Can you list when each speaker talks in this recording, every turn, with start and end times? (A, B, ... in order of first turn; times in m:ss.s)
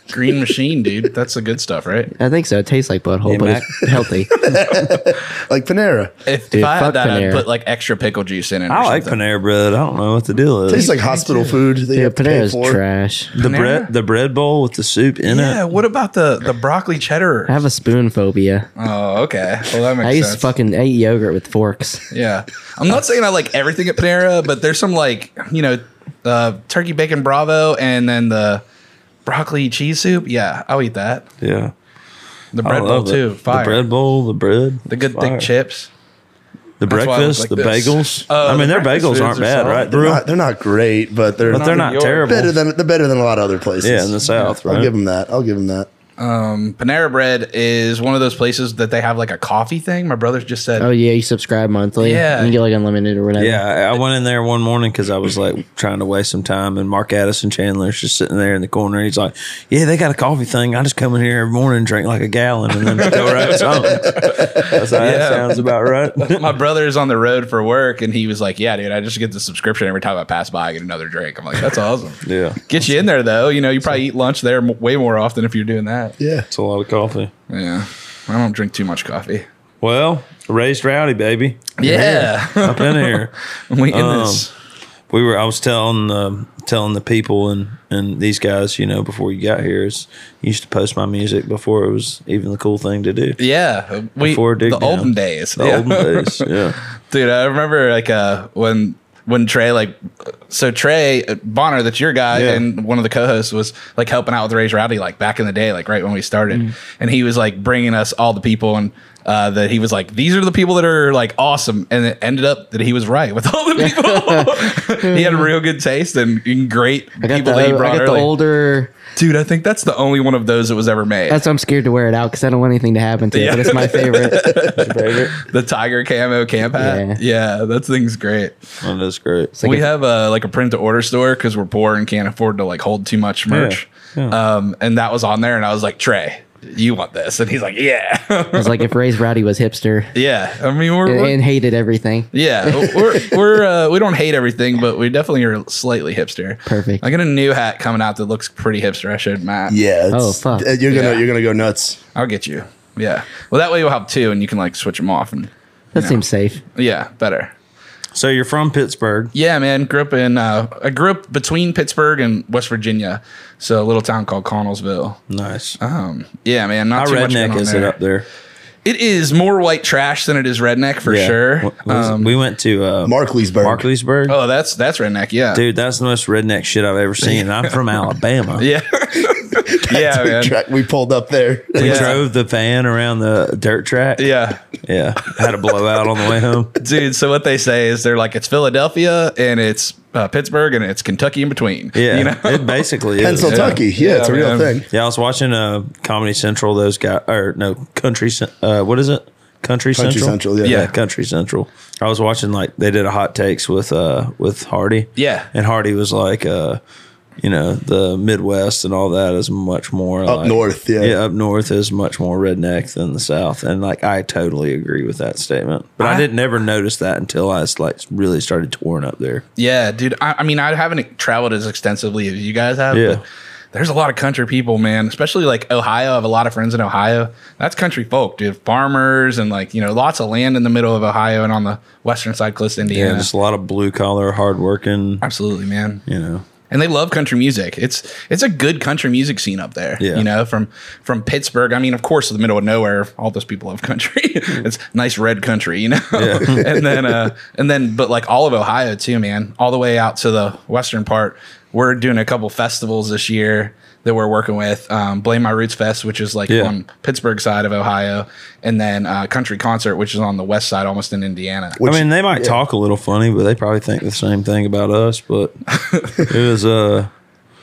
0:00.1-0:02.1 A
0:02.1-0:04.4 B
0:03.2-0:03.8 C
0:04.3-0:06.1 D
0:06.2-0:09.2 A
0:06.5-0:07.4 B
0:08.7-0:10.9 C
0:10.7-0:12.8 D
0:10.7-0:11.5 A
0:11.9-0:13.3 B
0:13.4-0:15.6 C
0:13.4-0:13.9 A
0:15.2-0:17.5 A
0:17.5-0:18.7 B
0:18.8-0:20.5 A
0:20.0-0:22.0 B
0:22.1-0:28.6 A
0:29.2-0:31.3 A
0:31.4-0:31.7 C
0:32.5-0:33.8 A
0:32.6-0:35.5 C
0:34.9-0:35.9 A
0:36.8-0:40.2 C
0:36.9-0:39.9 A
0:39.9-0:45.9 D
0:41.5-0:42.6 C
0:41.5-0:42.3 A
0:43.8-0:44.9 C
0:46.2-0:50.9 A
0:50.8-0:53.6 B
0:52.0-0:52.6 A
0:53.4-1:06.5 C
1:02.8-1:05.6 A
1:06.2-1:16.2 A
1:12.2-1:12.6 C
1:16.2-1:16.5 D
1:16.5-1:17.3 C
1:17.5-1:19.4 A
1:19.8-1:23.3 C
1:21.8-1:24.5 A
1:23.9-1:24.5 C
1:25.1-1:33.4 C
1:33.4-1:40.0 A
1:34.2-1:36.8 C
1:40.5-1:58.3 A
1:42.3-1:42.6 C
1:53.8-1:55.5 B
1:57.2-1:58.9 B
1:59.2-2:01.4 A
2:01.3-2:05.3 B
2:03.3-2:08.6 A
2:04.8-2:05.1 C
2:06.7-2:07.2 B
2:08.8-2:09.6 C
2:09.6-2:09.9 B
2:09.6-2:18.8 A
2:13.5-2:14.4 C
2:18.5-2:20.1 B
2:20.2-2:21.3 A
2:21.0-2:23.3 B
2:22.3-2:29.8 A
2:26.7-2:27.0 B
2:29.7-2:32.0 D
2:30.1-2:30.7 B
2:30.9-2:31.2 A
2:32.2-2:36.2 A
2:36.0-2:36.6 B
2:36.8-2:37.5 A
2:38.1-2:39.3 C
2:39.3-2:45.2 A
2:45.3-2:45.8 C
2:45.8-2:48.0 A
2:47.0-2:48.2 C
2:48.8-2:52.3 A
2:51.0-2:54.4 C
2:53.0-2:53.8 D
2:54.3-2:55.6 A
2:55.5-2:58.7 C
2:58.6-3:00.6 A
2:59.6-3:02.2 D
3:01.8-3:04.3 C
3:01.8-3:02.2 A
3:04.2-3:04.6 A
3:04.8-3:06.8 C
3:06.8-3:14.7 A
3:12.0-3:13.8 C
3:13.2-3:14.9 D
3:14.9-3:26.8 C
3:20.0-3:20.8 D
3:20.6-3:20.9 A
3:25.2-3:25.5 A
3:27.4-3:39.4 C
3:30.2-3:31.2 D
3:36.0-3:36.3 A
3:39.6-3:53.3 A
3:42.9-3:43.2 C
3:52.8-3:55.2 C
3:55.2-3:56.0 A
3:56.0-3:56.4 C
3:56.7-4:21.8 A
4:00.0-4:00.3 C
4:06.1-4:06.8 C
4:16.5-4:16.7 C
4:21.8-4:22.6 D
4:21.8-4:25.6 C
4:25.8-4:26.2 A
4:26.2-4:27.1 C